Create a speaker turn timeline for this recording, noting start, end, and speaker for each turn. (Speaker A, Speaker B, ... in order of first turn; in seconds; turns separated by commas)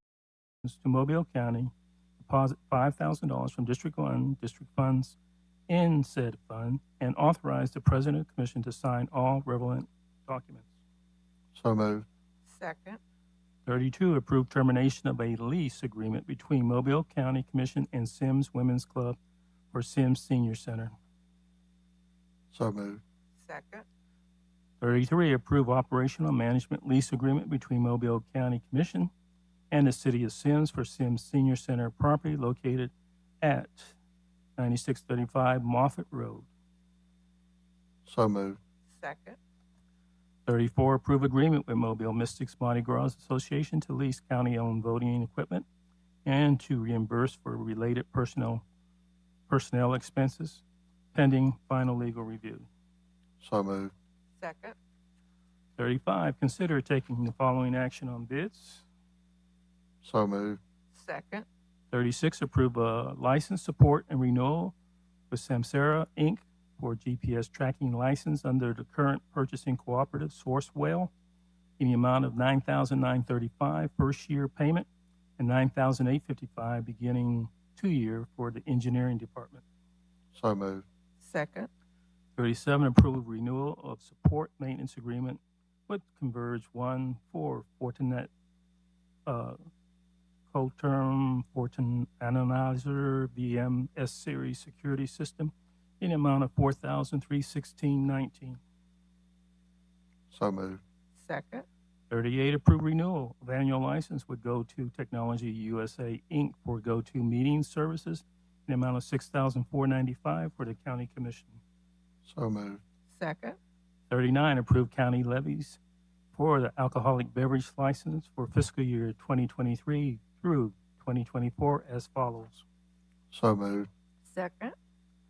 Speaker A: 0.6-5.2, Speaker A: 5.7-10.7, Speaker B: 11.6-12.1, Speaker C: 12.5-13.0, Speaker A: 13.7-19.2, Speaker A: 19.7-20.9, Speaker B: 22.5-23.0, Speaker C: 23.4-23.9, Speaker A: 24.8-29.1, Speaker A: 29.7-34.0, Speaker A: 34.6-36.5, Speaker B: 38.1-38.6, Speaker C: 39.0-39.4, Speaker A: 40.5-45.7, Speaker A: 46.2-48.6, Speaker A: 49.5-50.6, Speaker A: 51.1-52.7, Speaker B: 53.4-53.9, Speaker C: 54.4-54.8, Speaker A: 55.8-58.9, Speaker B: 60.0-60.6, Speaker C: 61.0-61.5, Speaker A: 61.9-64.8, Speaker A: 65.3-71.1, Speaker A: 71.8-74.9, Speaker A: 75.4-79.6, Speaker B: 80.3-80.8, Speaker C: 81.2-81.7, Speaker A: 82.4-88.3, Speaker A: 89.3-89.6, Speaker A: 90.5-98.6, Speaker B: 100.3-100.8, Speaker C: 101.2-101.7, Speaker A: 102.1-111.6, Speaker B: 112.3-112.8, Speaker C: 113.1-113.6, Speaker A: 114.1-115.8, Speaker A: 116.3-122.7, Speaker B: 123.3-123.9, Speaker C: 124.3-124.8